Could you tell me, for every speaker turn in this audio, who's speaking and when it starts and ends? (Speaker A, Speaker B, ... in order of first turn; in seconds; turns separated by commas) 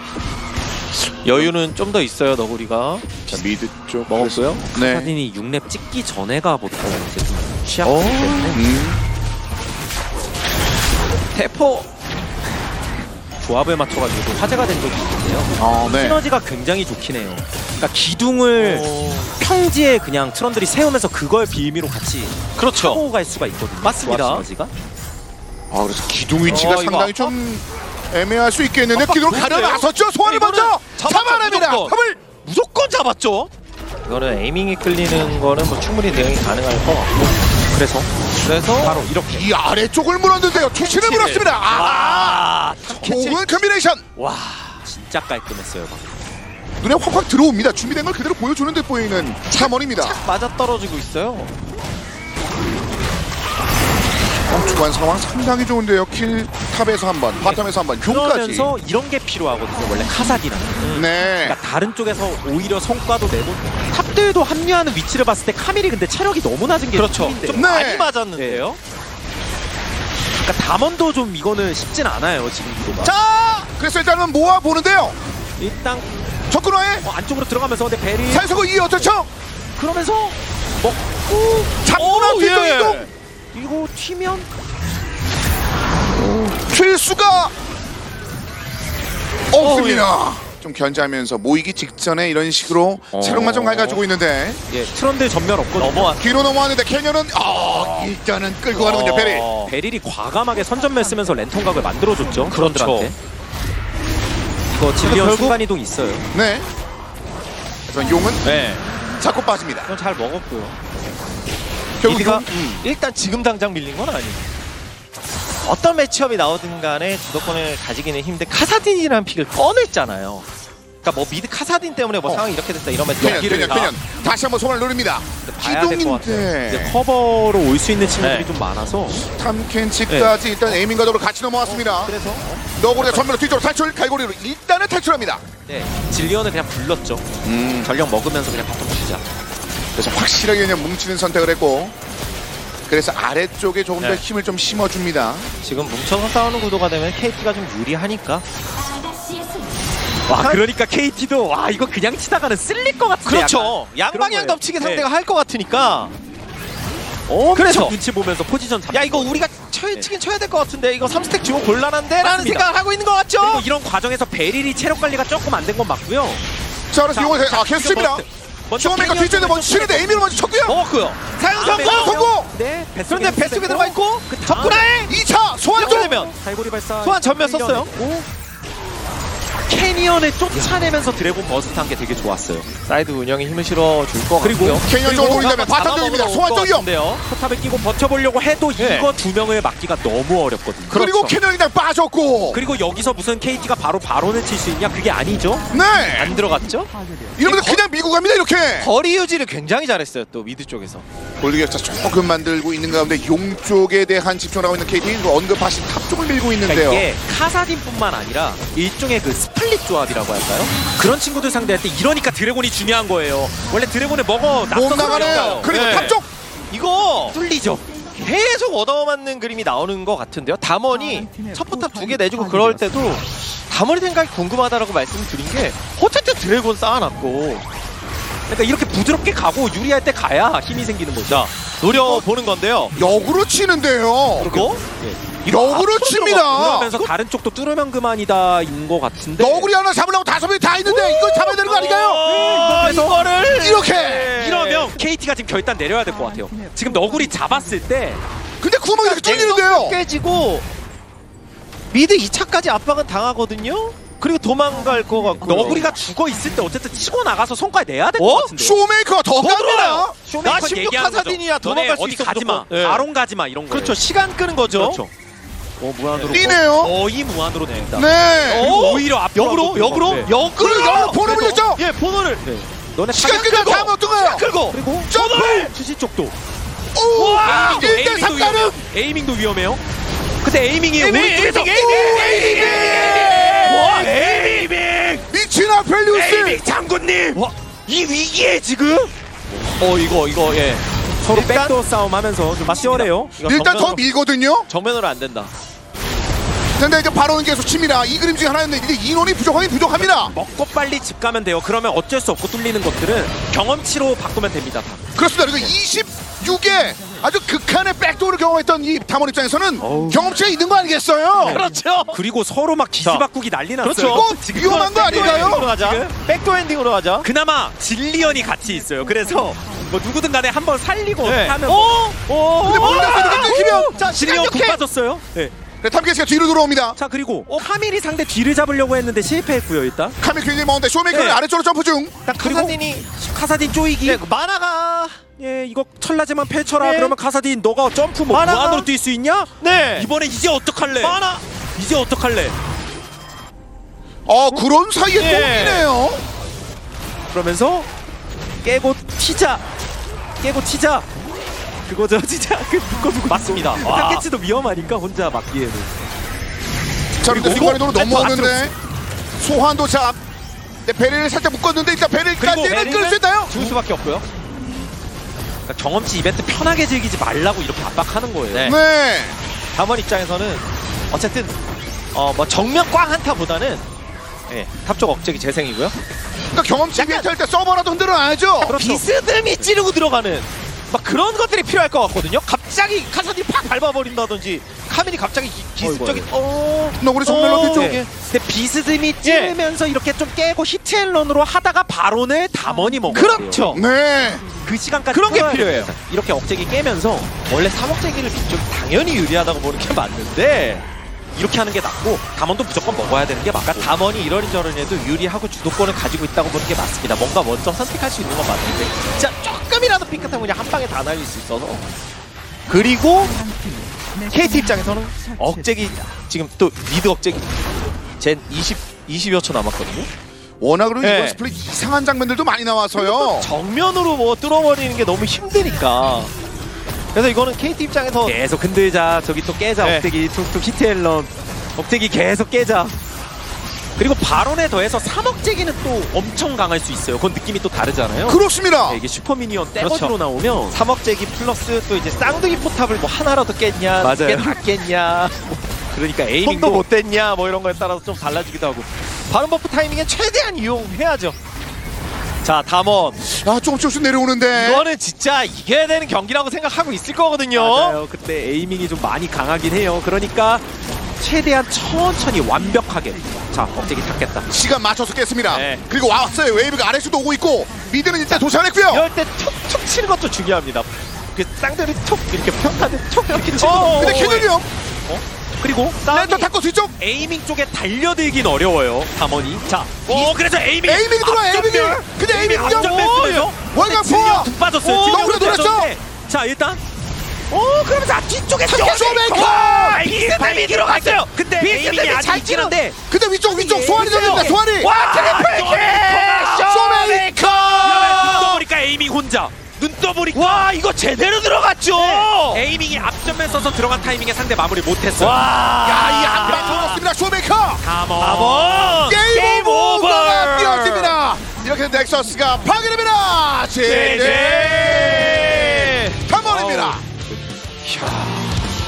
Speaker A: 0.9-3.2, Speaker B: 3.3-5.2, Speaker A: 4.1-4.6, Speaker C: 4.7-8.6, Speaker A: 7.8-8.6, Speaker B: 8.5-9.0, Speaker A: 11.3-11.9, Speaker C: 13.4-24.7, Speaker B: 15.6-16.2, Speaker A: 18.6-19.3, Speaker A: 22.6-23.0, Speaker A: 23.8-24.5, Speaker B: 25.7-32.2, Speaker A: 26.5-27.4, Speaker A: 28.9-33.5, Speaker A: 34.0-37.3, Speaker C: 37.7-38.1, Speaker A: 38.4-39.0, Speaker C: 38.7-39.5, Speaker B: 39.3-44.0, Speaker A: 40.7-43.6, Speaker A: 44.2-44.8, Speaker C: 44.8-46.1, Speaker B: 46.8-50.2, Speaker A: 49.5-51.5, Speaker B: 54.5-58.7, Speaker C: 57.4-67.8, Speaker A: 60.8-61.1, Speaker B: 60.9-61.6, Speaker A: 67.0-68.8, Speaker B: 67.5-68.1, Speaker C: 68.3-68.8, Speaker C: 70.4-73.2, Speaker A: 73.0-73.5, Speaker B: 73.1-75.2, Speaker C: 75.6-76.1, Speaker B: 76.5-77.1, Speaker C: 77.0-78.6, Speaker B: 78.3-79.3, Speaker C: 79.8-81.9, Speaker B: 81.8-83.1, Speaker A: 81.9-83.1, Speaker C: 83.5-84.5, Speaker B: 86.2-87.5, Speaker B: 89.5-94.6, Speaker A: 89.6-90.1, Speaker C: 93.1-94.0, Speaker C: 94.7-96.2, Speaker A: 95.8-96.3, Speaker B: 96.2-99.5, Speaker A: 98.7-99.7, Speaker C: 99.6-103.2, Speaker A: 102.5-103.1, Speaker C: 104.7-106.3, Speaker A: 105.0-105.6, Speaker B: 106.3-106.7, Speaker B: 107.9-108.5, Speaker A: 108.4-108.9, Speaker B: 109.2-109.9, Speaker A: 109.9-110.8, Speaker B: 112.0-112.8, Speaker A: 112.0-114.5, Speaker C: 112.4-112.6, Speaker A: 115.6-120.5, Speaker A: 121.0-124.0, Speaker B: 123.2-127.0, Speaker C: 123.2-123.9, Speaker C: 125.5-129.2, Speaker A: 128.2-128.5, Speaker B: 129.2-132.2, Speaker C: 130.1-130.3, Speaker A: 131.6-132.7, Speaker B: 132.8-135.4, Speaker C: 132.9-133.4, Speaker C: 135.7-139.2, Speaker B: 137.4-137.9, Speaker B: 140.0-141.9, Speaker B: 142.9-145.5, Speaker A: 145.6-148.5, Speaker C: 150.3-155.1, Speaker A: 150.3-150.6, Speaker A: 153.2-156.2, Speaker C: 157.3-160.1, Speaker A: 157.6-157.9, Speaker A: 158.9-163.7, Speaker C: 162.2-162.7, Speaker C: 163.4-166.4, Speaker B: 166.9-168.3, Speaker C: 167.1-170.3, Speaker B: 168.8-170.8, Speaker A: 170.7-172.2, Speaker C: 171.5-175.0, Speaker B: 171.6-172.5, Speaker A: 173.1-175.1, Speaker B: 175.1-176.1, Speaker A: 175.7-176.3, Speaker C: 175.8-178.3, Speaker A: 177.0-177.9, Speaker C: 179.7-182.7, Speaker A: 180.5-180.9, Speaker A: 182.8-187.2, Speaker C: 184.4-185.4, Speaker B: 184.8-186.9, Speaker C: 187.2-191.3, Speaker A: 188.8-189.1, Speaker B: 190.9-192.6, Speaker C: 192.5-195.7, Speaker B: 195.7-196.4, Speaker A: 196.2-197.8, Speaker B: 197.4-198.9, Speaker A: 198.8-201.1, Speaker B: 201.4-207.1, Speaker C: 206.7-216.2, Speaker B: 214.7-216.3, Speaker A: 215.2-217.4, Speaker C: 217.3-217.8, Speaker A: 218.1-227.7, Speaker C: 228.5-231.5, Speaker A: 231.3-233.2, Speaker B: 231.9-232.2, Speaker B: 233.0-234.6, Speaker A: 234.4-234.8, Speaker C: 234.4-239.7, Speaker B: 235.4-236.9, Speaker A: 236.6-237.1, Speaker B: 239.4-242.2, Speaker A: 240.8-245.0, Speaker C: 242.3-243.3, Speaker B: 243.4-244.4, Speaker C: 244.4-248.2, Speaker B: 248.6-250.0, Speaker A: 248.9-250.7, Speaker A: 251.9-256.0, Speaker C: 255.4-258.8, Speaker A: 258.2-258.5, Speaker B: 258.6-260.1, Speaker A: 259.4-263.1, Speaker C: 260.2-264.0, Speaker A: 263.7-265.0, Speaker C: 264.7-265.1, Speaker C: 265.8-270.4, Speaker A: 266.1-266.5, Speaker B: 266.3-267.0, Speaker B: 267.9-268.8, Speaker A: 268.5-272.5, Speaker B: 270.4-271.8, Speaker C: 271.2-271.6, Speaker C: 272.4-273.5, Speaker B: 273.1-274.5, Speaker A: 273.2-275.7, Speaker C: 274.7-276.4, Speaker B: 275.1-275.7, Speaker B: 276.9-278.8, Speaker A: 277.1-278.7, Speaker C: 277.4-279.8, Speaker C: 280.4-285.3, Speaker A: 281.0-284.7, Speaker B: 281.7-283.6, Speaker B: 285.3-286.6, Speaker C: 286.1-289.1, Speaker A: 289.8-291.8, Speaker C: 291.2-293.4, Speaker A: 292.6-294.0, Speaker B: 293.4-294.7, Speaker A: 294.7-295.5, Speaker B: 296.8-300.3, Speaker C: 300.0-305.0, Speaker B: 305.1-311.7, Speaker C: 309.8-310.4, Speaker A: 311.4-312.2, Speaker C: 311.4-316.1, Speaker A: 313.8-317.3, Speaker B: 314.1-315.7, Speaker C: 317.2-321.9, Speaker A: 321.2-324.9, Speaker C: 322.5-325.5, Speaker B: 322.6-324.0, Speaker B: 325.8-327.0, Speaker C: 327.0-330.2, Speaker B: 330.2-332.2, Speaker C: 331.1-331.4, Speaker A: 332.3-333.1, Speaker C: 332.4-334.2, Speaker A: 334.0-335.2, Speaker C: 335.4-341.2, Speaker A: 336.8-337.2, Speaker A: 338.3-338.9, Speaker A: 339.6-340.1, Speaker A: 341.0-341.4, Speaker C: 341.8-342.6, Speaker B: 344.3-346.2, Speaker A: 345.1-345.9, Speaker C: 347.3-347.9, Speaker C: 348.6-349.6, Speaker C: 350.4-351.1, Speaker C: 351.9-356.0, Speaker A: 353.4-354.3, Speaker B: 357.2-358.7, Speaker C: 357.2-358.7, Speaker B: 359.4-360.2, Speaker B: 360.9-363.5, Speaker C: 362.4-363.8, Speaker A: 362.6-364.3, Speaker C: 365.7-368.8, Speaker A: 368.5-368.8, Speaker B: 368.6-369.4, Speaker A: 369.7-371.6, Speaker A: 372.1-373.9, Speaker A: 374.5-376.0, Speaker B: 376.5-378.8, Speaker A: 376.9-377.3, Speaker A: 378.6-388.1, Speaker C: 378.6-379.1, Speaker C: 385.8-386.3, Speaker B: 387.0-388.0, Speaker C: 387.5-393.8, Speaker A: 389.2-389.6, Speaker A: 393.1-393.8, Speaker B: 393.7-394.5, Speaker C: 394.5-397.3, Speaker A: 395.1-395.9, Speaker A: 397.5-400.9, Speaker C: 401.4-404.0, Speaker A: 403.7-411.9, Speaker A: 412.7-413.4, Speaker A: 414.2-417.5, Speaker A: 418.2-420.1, Speaker B: 420.6-423.5, Speaker A: 421.0-421.4, Speaker A: 423.0-426.3, Speaker A: 427.1-428.4, Speaker C: 428.2-433.0, Speaker A: 429.8-430.1, Speaker C: 434.0-440.8, Speaker B: 438.3-439.0, Speaker A: 439.8-440.1, Speaker A: 440.7-445.6, Speaker C: 444.0-444.6, Speaker C: 445.9-446.9, Speaker A: 446.4-451.4, Speaker A: 452.4-453.2, Speaker B: 453.2-454.9, Speaker A: 454.5-458.0, Speaker C: 457.5-460.6, Speaker C: 461.2-464.5, Speaker B: 464.5-469.1, Speaker A: 465.5-465.9, Speaker A: 468.3-474.5, Speaker C: 473.3-474.5, Speaker B: 473.6-474.7, Speaker C: 475.6-476.1, Speaker A: 476.0-476.5, Speaker B: 476.1-476.9, Speaker C: 476.9-486.8, Speaker A: 479.7-480.3, Speaker B: 480.9-483.0, Speaker A: 482.6-483.5, Speaker B: 483.7-485.9, Speaker A: 484.8-485.4, Speaker C: 487.5-496.9, Speaker B: 488.7-490.0, Speaker A: 488.7-492.7, Speaker B: 493.1-494.9, Speaker A: 494.0-498.6, Speaker B: 496.5-498.4, Speaker C: 497.8-500.7, Speaker A: 500.3-502.7, Speaker C: 501.9-505.4, Speaker A: 505.2-507.0, Speaker B: 505.8-507.8, Speaker C: 506.4-507.0, Speaker C: 507.8-508.9, Speaker A: 508.2-511.2, Speaker B: 508.9-517.0, Speaker A: 513.8-517.0, Speaker A: 517.8-518.7